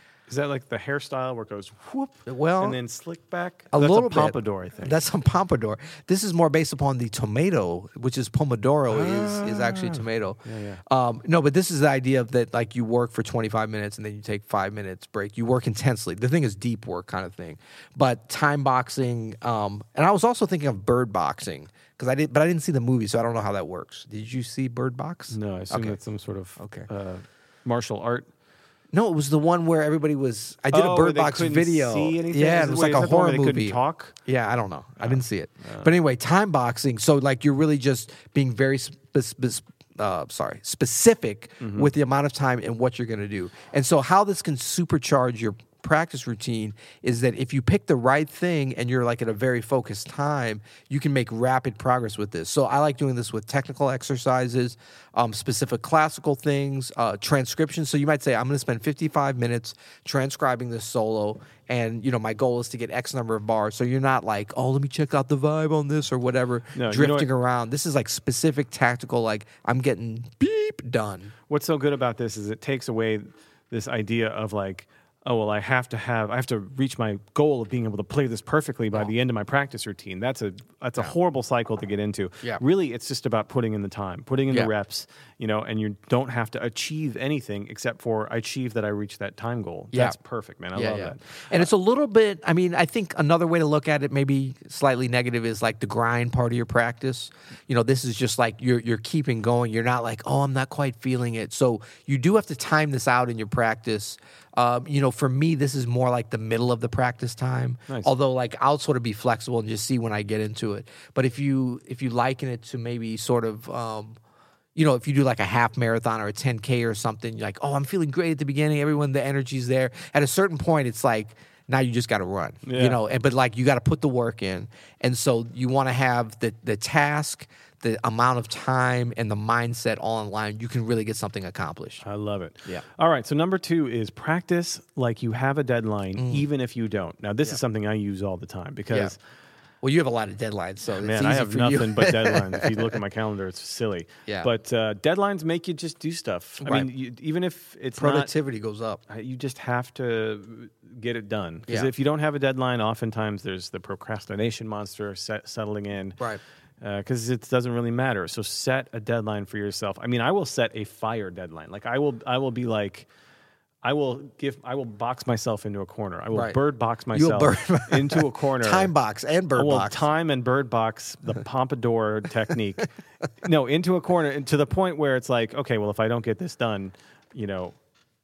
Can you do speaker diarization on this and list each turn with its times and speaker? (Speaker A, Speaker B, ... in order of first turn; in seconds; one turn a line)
Speaker A: 0.3-5.0
Speaker B: 2.3-2.8
Speaker B: 3.7-26.0
Speaker A: 8.9-10.8
Speaker A: 25.3-28.3
Speaker B: 26.6-26.9
Speaker B: 28.9-71.3
Speaker A: 30.7-34.2
Speaker A: 35.0-35.9
Speaker A: 41.6-41.9
Speaker A: 66.7-67.3
Speaker A: 71.5-91.7
Speaker B: 89.9-90.2
Speaker B: 90.7-114.2
Speaker B: 114.8-132.0
Speaker A: 122.7-123.0
Speaker A: 132.0-139.2
Speaker B: 136.2-136.5
Speaker B: 139.8-143.0
Speaker A: 141.0-148.3
Speaker B: 146.6-146.9
Speaker B: 148.0-149.0
Speaker A: 149.1-156.2
Speaker A: 156.8-163.1
Speaker A: 163.8-168.9
Speaker B: 166.3-166.6
Speaker B: 167.1-170.1
Speaker A: 169.5-172.9
Speaker A: 173.4-177.8